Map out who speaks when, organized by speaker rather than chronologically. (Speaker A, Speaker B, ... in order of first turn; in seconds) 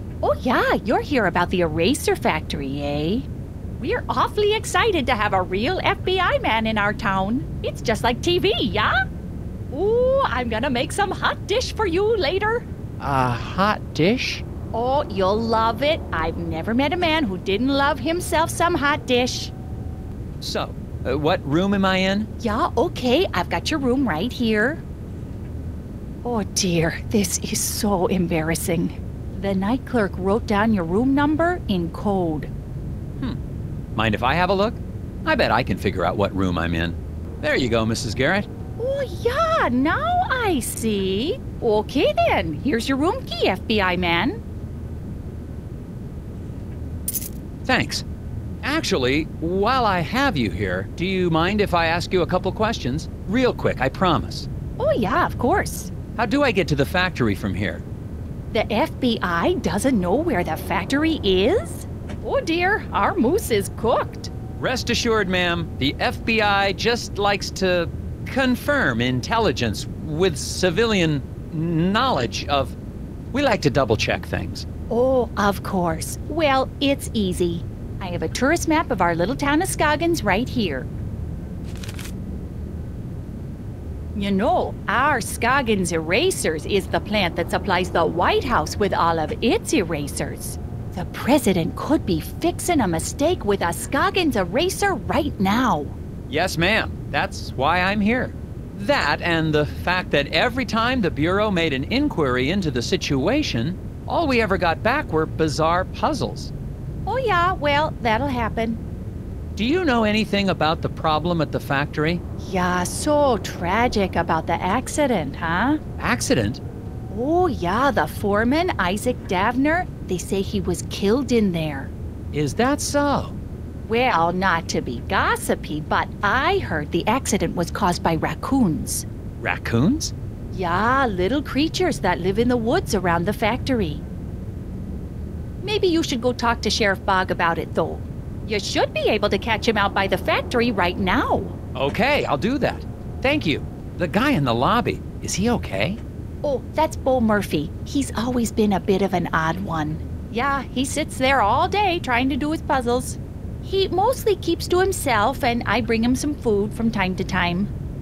Speaker A: 0.2-3.3, 3.8-8.9, 9.7-12.6, 14.7-19.5, 22.4-24.8, 26.2-32.5, 38.8-44.4, 54.8-55.9, 58.5-64.3, 74.9-80.9, 84.1-96.0, 107.0-108.8, 112.4-115.8, 117.1-121.9, 123.8-129.1, 130.5-134.0, 135.6-141.5, 146.4-157.7
Speaker B: 13.0-14.4, 20.4-22.3, 33.9-38.5, 47.6-48.0, 48.6-54.5, 56.1-57.8, 64.6-72.8, 73.3-74.7, 96.3-106.5, 109.5-112.2, 116.0-116.6, 122.3-123.3, 129.4-130.1, 141.7-146.0